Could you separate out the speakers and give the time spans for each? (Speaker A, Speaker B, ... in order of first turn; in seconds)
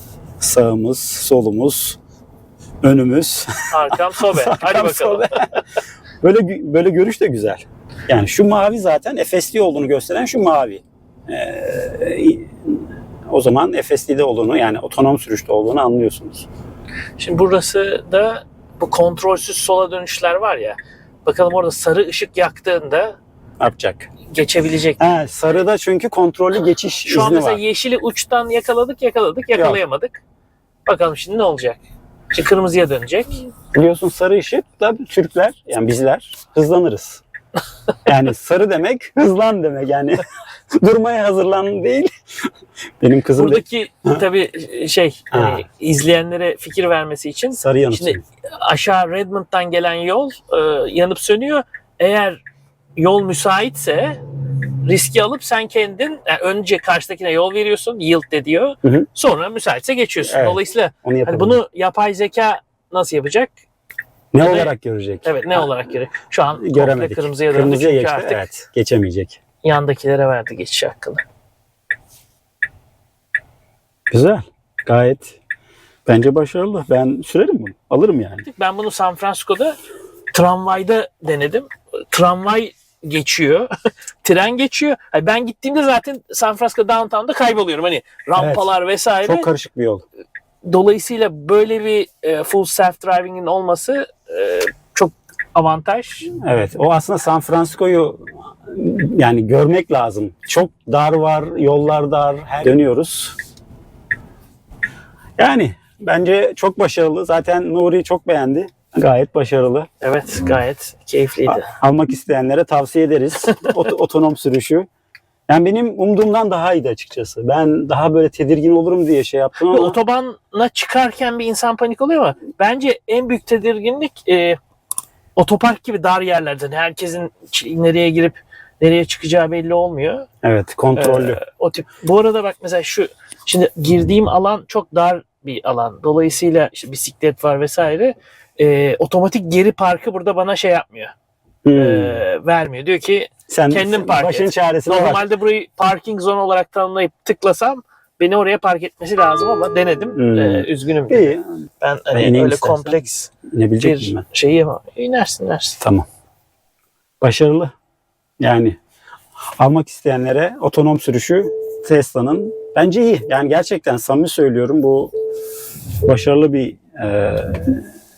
Speaker A: 0.4-2.0, 2.8-5.6, 6.2-16.5, 23.6-24.1, 25.0-27.6, 29.5-29.8, 33.7-37.2, 38.0-40.2, 40.8-42.1, 43.0-44.2, 45.3-45.6, 47.5-48.2, 60.2-61.6, 64.3-65.7, 66.5-69.4, 74.1-75.4, 76.0-78.5, 88.3-90.0, 96.3-103.3, 105.4-109.9, 111.5-114.9, 115.5-120.0, 130.4-131.4, 141.6-142.2, 143.5-145.2, 150.2-151.5, 152.1-154.2, 155.8-156.1, 157.2-157.7, 158.4-158.8, 159.6-165.1, 166.0-167.8
Speaker B: 3.7-5.6, 17.2-23.2, 24.3-25.0, 27.1-30.2, 30.9-31.8, 32.3-33.5, 43.4-52.4, 53.0-54.2, 54.8-63.5, 64.4-64.7, 65.2-68.5, 69.6-71.2, 78.4-79.8, 80.3-83.7, 84.2-89.5, 90.6-96.3, 110.0-111.7, 119.7-124.6, 125.3-130.3, 130.9-141.1, 141.7-155.8